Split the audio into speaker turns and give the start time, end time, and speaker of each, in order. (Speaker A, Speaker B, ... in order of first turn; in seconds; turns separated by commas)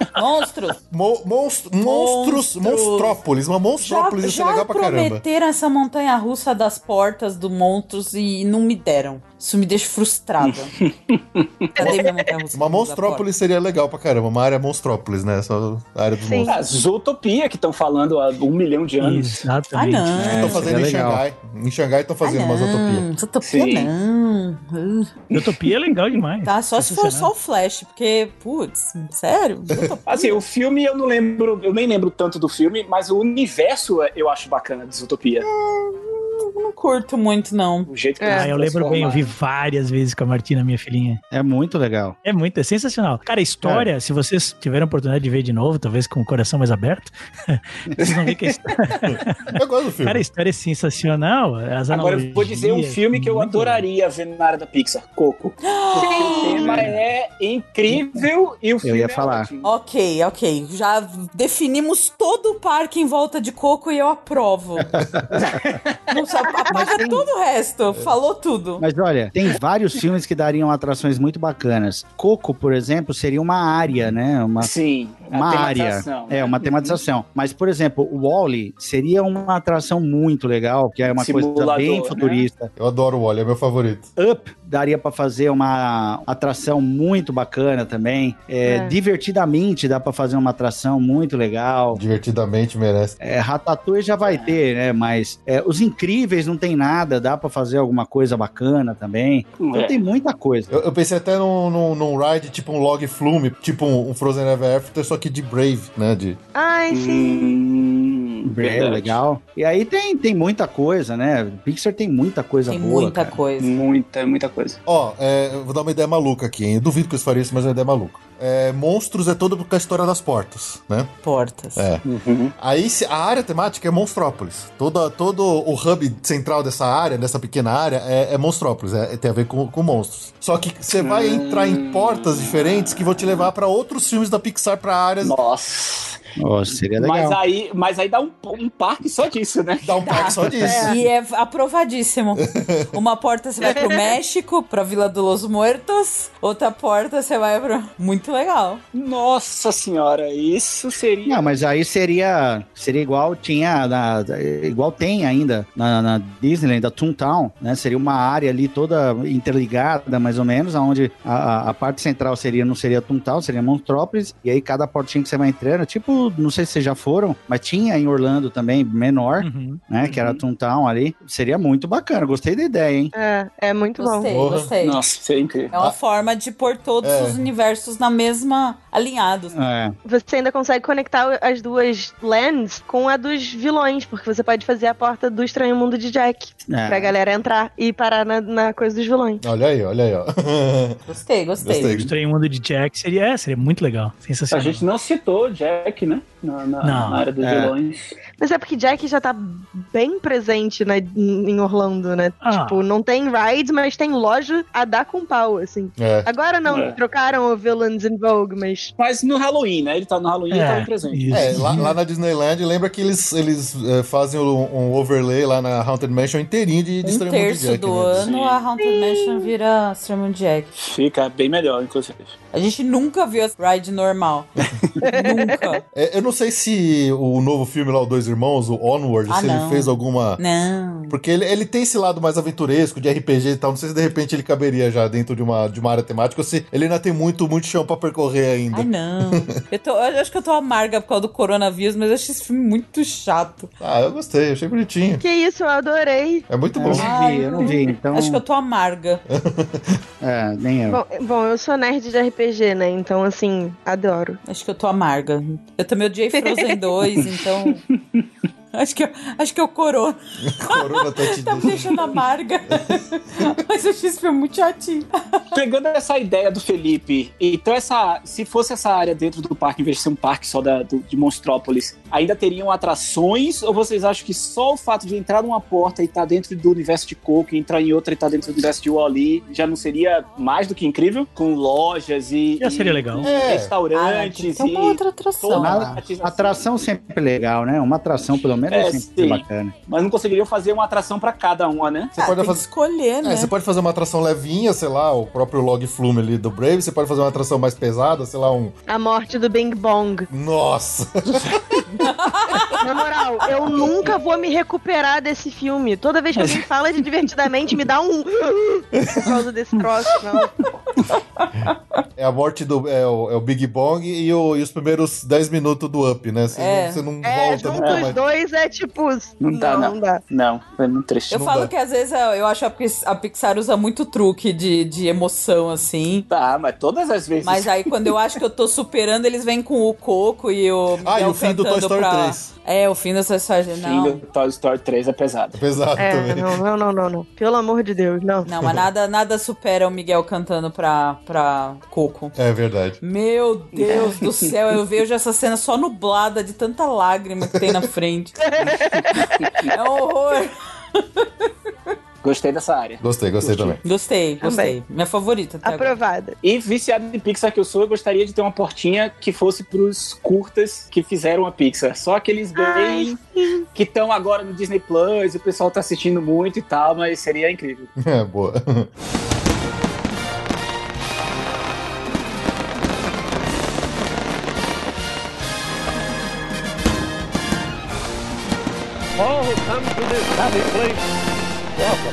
Speaker A: 0.1-0.8, Speaker B: 0.9-5.2, Speaker A: 1.8-3.2, Speaker A: 3.8-10.7, Speaker C: 10.4-11.7, Speaker A: 11.8-13.2, Speaker B: 11.8-16.8, Speaker D: 16.2-16.5, Speaker C: 16.5-19.4, Speaker E: 19.0-20.4, Speaker A: 19.7-20.6, Speaker F: 20.1-21.2, Speaker B: 20.3-23.1, Speaker A: 22.2-25.1, Speaker C: 23.4-23.9, Speaker C: 25.3-25.6, Speaker E: 25.3-27.3, Speaker A: 26.4-30.4, Speaker C: 30.1-35.5, Speaker A: 35.4-37.9, Speaker C: 37.9-39.3, Speaker D: 38.2-38.5, Speaker E: 38.3-41.2, Speaker F: 41.3-42.2, Speaker E: 42.2-53.9, Speaker F: 43.6-43.9, Speaker C: 48.0-48.3, Speaker B: 49.1-50.2, Speaker C: 51.9-59.7, Speaker A: 55.6-56.7, Speaker D: 56.0-56.9, Speaker F: 56.7-56.9, Speaker F: 57.9-58.2, Speaker F: 58.8-59.5, Speaker A: 59.6-64.9, Speaker F: 64.9-65.7, Speaker B: 65.0-65.3, Speaker C: 65.4-66.0, Speaker A: 66.1-68.8, Speaker D: 66.4-67.3, Speaker F: 68.8-74.7, Speaker C: 74.6-77.0, Speaker F: 75.3-82.7, Speaker C: 81.1-82.5, Speaker B: 82.8-84.1, Speaker F: 84.2-92.0, Speaker D: 88.7-89.0, Speaker B: 91.9-93.2, Speaker F: 93.2-100.7, Speaker C: 94.2-94.6, Speaker C: 99.6-100.0, Speaker B: 100.7-106.4, Speaker D: 106.5-107.5, Speaker C: 106.9-109.2, Speaker F: 108.4-113.4, Speaker A: 112.7-113.7, Speaker C: 113.6-114.8, Speaker B: 114.9-121.1, Speaker A: 121.2-121.9, Speaker B: 121.8-122.0, Speaker C: 122.0-122.5, Speaker B: 122.6-135.3, Speaker C: 131.0-133.5, Speaker C: 135.2-136.2, Speaker F: 136.4-137.4, Speaker C: 137.0-139.9, Speaker B: 139.8-141.0, Speaker A: 140.0-148.8, Speaker D: 140.6-141.0, Speaker B: 142.6-142.8, Speaker D: 143.6-144.2, Speaker C: 148.9-151.5, Speaker F: 151.3-173.1, Speaker E: 169.4-169.8, Speaker C: 170.0-170.4, Speaker D: 173.1-174.3, Speaker A: 174.0-175.0, Speaker B: 174.3-174.7, Speaker C: 174.8-175.7, Speaker A: 175.7-179.6, Speaker B: 177.0-177.4, Speaker F: 179.5-179.9, Speaker D: 180.1-189.4, Speaker F: 186.7-187.2, Speaker B: 189.4-191.0, Speaker A: 191.1-191.9, Speaker B: 191.6-192.1, Speaker E: 191.9-194.8, Speaker C: 194.5-198.2, Speaker E: 196.8-197.3, Speaker F: 197.4-197.7, Speaker D: 198.4-208.9, Speaker E: 202.4-202.8, Speaker B: 206.0-206.3, Speaker C: 206.7-207.0, Speaker C: 209.0-211.7, Speaker E: 210.5-212.0, Speaker B: 211.3-218.3, Speaker A: 217.0-220.7, Speaker C: 218.2-218.7, Speaker D: 218.8-219.5, Speaker C: 220.8-222.3, Speaker A: 222.5-224.5, Speaker D: 225.0-225.8, Speaker A: 225.1-225.8, Speaker B: 225.9-230.4, Speaker A: 229.3-231.2, Speaker B: 231.1-239.5, Speaker A: 238.7-243.7, Speaker B: 243.8-245.2, Speaker D: 245.2-246.4, Speaker B: 246.5-247.1, Speaker F: 246.8-248.4, Speaker A: 246.9-249.2, Speaker B: 249.3-250.0, Speaker F: 250.2-251.0, Speaker D: 250.9-254.4, Speaker A: 254.5-257.8, Speaker D: 256.3-256.8, Speaker C: 257.2-258.3, Speaker A: 258.7-260.2, Speaker B: 260.4-262.1, Speaker A: 260.7-265.1, Speaker C: 265.5-286.7, Speaker E: 282.6-283.3, Speaker B: 283.2-283.8, Speaker A: 283.9-286.0, Speaker F: 285.6-289.7, Speaker C: 288.7-292.1, Speaker B: 292.2-292.7, Speaker A: 292.2-293.5, Speaker B: 293.2-298.7, Speaker D: 298.9-300.3, Speaker B: 300.3-301.6, Speaker A: 302.0-302.9, Speaker D: 302.8-310.5, Speaker A: 310.4-311.8, Speaker B: 312.2-318.2, Speaker A: 316.6-317.1, Speaker D: 317.2-320.2, Speaker C: 317.8-318.1, Speaker C: 319.4-321.4, Speaker A: 321.3-326.3, Speaker B: 321.3-321.7, Speaker C: 326.3-328.2, Speaker A: 327.4-334.2, Speaker B: 331.1-332.5, Speaker C: 333.7-335.6, Speaker B: 335.5-336.5, Speaker D: 336.0-338.5, Speaker A: 338.4-342.4, Speaker B: 342.4-343.0, Speaker A: 343.0-348.4, Speaker C: 343.7-344.5, Speaker D: 348.4-349.6, Speaker C: 349.4-349.7, Speaker A: 349.7-351.5, Speaker C: 352.2-353.8, Speaker B: 353.0-353.8, Speaker A: 353.8-356.0, Speaker D: 354.4-354.8, Speaker D: 355.6-356.4, Speaker C: 356.4-363.2, Speaker D: 362.6-363.6, Speaker C: 363.8-367.9, Speaker B: 368.0-368.9